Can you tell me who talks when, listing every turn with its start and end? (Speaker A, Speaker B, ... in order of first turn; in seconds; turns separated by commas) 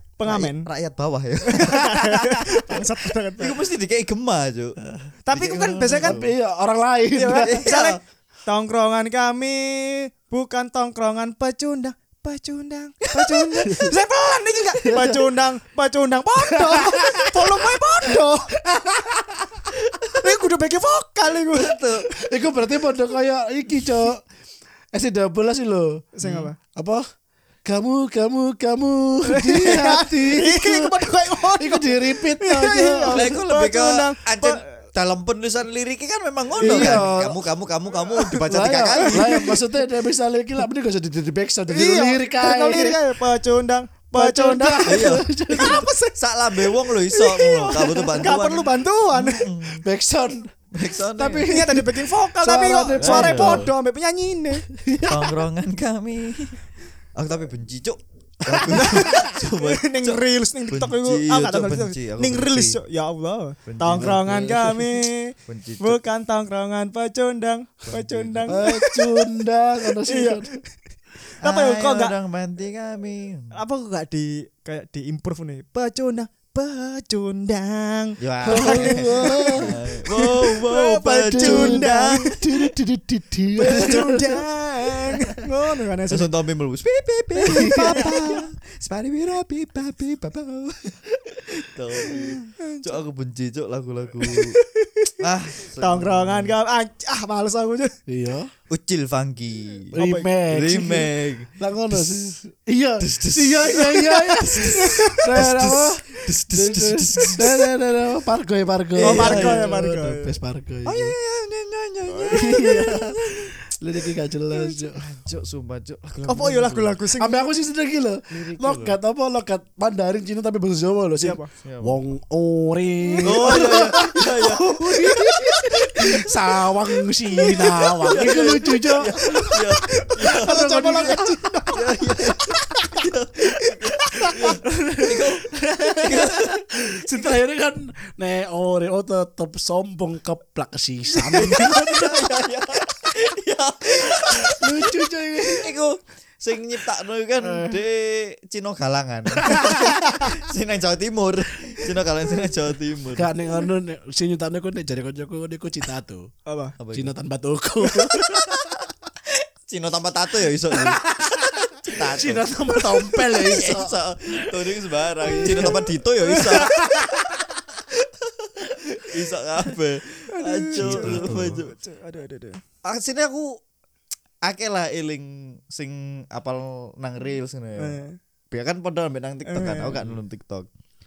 Speaker A: 0.2-0.7, Speaker B: 0.2-6.3, Speaker A: 1.5-3.6, Speaker A: 5.2-6.2, Speaker C: 6.0-7.6, Speaker A: 7.2-18.6, Speaker B: 7.3-8.0, Speaker B: 13.0-13.8, Speaker C: 13.7-13.9, Speaker C: 14.8-15.3, Speaker C: 16.5-19.8, Speaker A: 20.1-21.8, Speaker B: 21.5-22.1, Speaker C: 22.1-24.2, Speaker C: 24.9-27.1, Speaker A: 26.1-26.6, Speaker B: 26.2-26.5, Speaker C: 27.6-33.3, Speaker A: 29.3-34.8, Speaker B: 33.1-39.6, Speaker A: 36.6-37.2, Speaker C: 36.6-37.4, Speaker A: 38.1-38.4, Speaker C: 38.4-43.0, Speaker A: 39.0-39.7, Speaker A: 41.7-49.5, Speaker C: 44.1-45.9, Speaker B: 44.9-49.9, Speaker C: 49.8-50.5, Speaker B: 50.7-51.5, Speaker C: 51.1-53.7, Speaker A: 51.5-54.7, Speaker B: 52.9-53.7, Speaker C: 54.7-55.5, Speaker B: 55.1-56.6, Speaker B: 57.2-62.8, Speaker A: 58.6-69.4, Speaker B: 63.7-64.2, Speaker C: 64.0-64.9, Speaker B: 65.5-66.0, Speaker B: 67.8-68.7, Speaker C: 68.5-70.5, Speaker A: 70.0-70.5, Speaker A: 71.4-72.2, Speaker B: 71.4-73.5, Speaker A: 73.5-82.4, Speaker B: 78.2-82.4, Speaker C: 78.5-79.7, Speaker C: 81.3-84.4, Speaker A: 83.6-86.3, Speaker B: 83.7-84.0, Speaker B: 86.1-94.6, Speaker A: 87.4-88.5, Speaker C: 87.5-88.2, Speaker A: 92.0-93.0, Speaker A: 94.2-95.2, Speaker B: 95.2-96.6, Speaker A: 95.8-97.9, Speaker C: 98.1-98.5, Speaker B: 98.7-99.9, Speaker C: 99.9-111.2, Speaker A: 100.0-100.3, Speaker B: 100.5-102.2, Speaker B: 103.0-107.7, Speaker A: 104.6-105.2, Speaker B: 109.0-109.7, Speaker A: 109.0-110.4, Speaker B: 110.8-113.5, Speaker C: 112.3-115.0, Speaker B: 115.0-117.0, Speaker A: 116.3-117.5, Speaker C: 117.2-129.2, Speaker B: 118.5-119.0, Speaker A: 121.2-121.5, Speaker B: 121.6-122.0, Speaker A: 123.0-126.2, Speaker B: 123.2-124.7, Speaker A: 127.4-135.1, Speaker B: 128.1-135.5, Speaker C: 130.4-131.3, Speaker C: 134.9-142.4, Speaker A: 135.8-136.1, Speaker B: 136.0-137.2, Speaker B: 141.2-153.3, Speaker C: 144.2-145.8, Speaker C: 147.4-147.8, Speaker C: 149.4-150.3, Speaker A: 149.5-150.3, Speaker C: 153.2-156.3, Speaker A: 156.5-156.8, Speaker B: 156.8-157.1, Speaker C: 156.9-158.7, Speaker B: 158.1-158.7, Speaker B: 159.3-161.1, Speaker C: 160.7-165.9, Speaker B: 161.8-167.0, Speaker A: 165.2-167.1, Speaker C: 166.5-167.3, Speaker B: 167.9-171.7, Speaker A: 170.3-172.6, Speaker C: 170.7-171.6, Speaker B: 172.8-173.6, Speaker B: 174.4-180.7, Speaker A: 177.8-178.2, Speaker A: 179.4-180.0